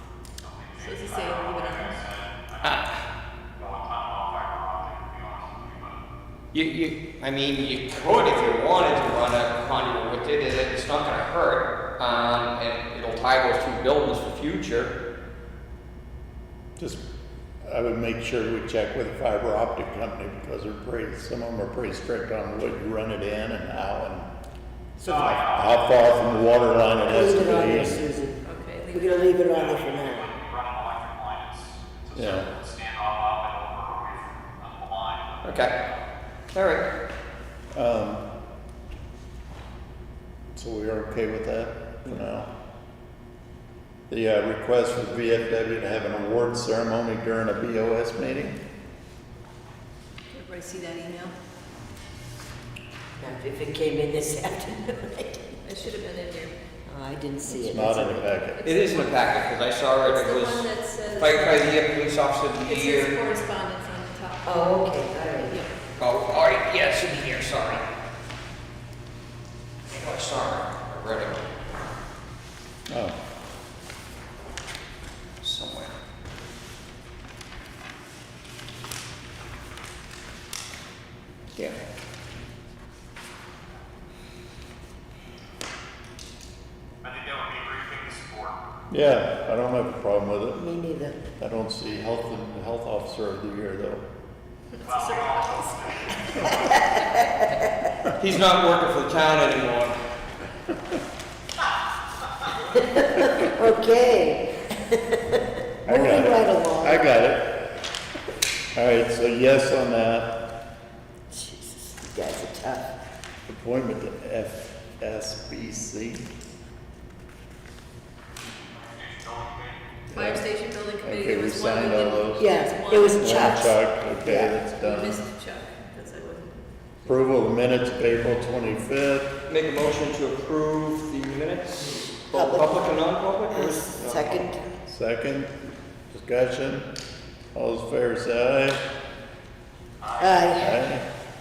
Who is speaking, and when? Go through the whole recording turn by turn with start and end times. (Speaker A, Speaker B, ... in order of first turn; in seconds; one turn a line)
Speaker A: 0.4-2.9
Speaker B: 0.8-2.0
Speaker C: 2.6-3.0
Speaker A: 3.6-6.0
Speaker C: 6.5-14.9
Speaker D: 16.8-17.0
Speaker D: 17.6-24.3
Speaker E: 25.0-25.4
Speaker A: 25.0-27.2
Speaker D: 25.1-28.0
Speaker E: 27.1-30.3
Speaker B: 28.4-29.4
Speaker A: 29.5-36.0
Speaker D: 32.1-32.5
Speaker C: 35.4-35.7
Speaker C: 36.5-36.9
Speaker D: 37.7-38.2
Speaker D: 40.5-42.5
Speaker D: 44.1-48.6
Speaker B: 50.3-51.3
Speaker E: 53.2-55.5
Speaker B: 55.6-56.5
Speaker E: 56.9-58.3
Speaker D: 57.5-58.6
Speaker B: 58.6-61.8
Speaker C: 58.6-63.1
Speaker B: 62.5-64.7
Speaker E: 64.5-65.6
Speaker B: 65.5-65.8
Speaker C: 66.0-67.8
Speaker C: 69.9-71.5
Speaker D: 72.9-73.2
Speaker C: 75.4-76.0
Speaker A: 87.0-88.6
Speaker D: 88.9-90.6
Speaker E: 90.5-91.2
Speaker D: 91.4-94.0
Speaker B: 94.8-95.8
Speaker A: 94.8-96.8
Speaker E: 96.7-97.7
Speaker C: 98.2-100.0
Speaker E: 102.7-107.1
Speaker D: 105.8-107.7
Speaker D: 108.7-110.4
Speaker E: 111.3-112.9
Speaker D: 113.5-116.2
Speaker A: 118.6-120.0
Speaker D: 120.1-120.4
Speaker B: 120.1-123.7
Speaker D: 121.0-122.5
Speaker E: 122.4-123.7
Speaker D: 123.1-125.2
Speaker E: 124.2-124.5
Speaker B: 124.6-126.5
Speaker D: 127.0-129.3
Speaker C: 129.5-134.4
Speaker E: 132.3-132.9
Speaker E: 133.5-134.6
Speaker D: 134.9-135.5
Speaker D: 136.1-136.9
Speaker D: 137.5-138.8
Speaker A: 140.0-140.5
Speaker E: 140.2-140.8
Speaker D: 140.6-141.1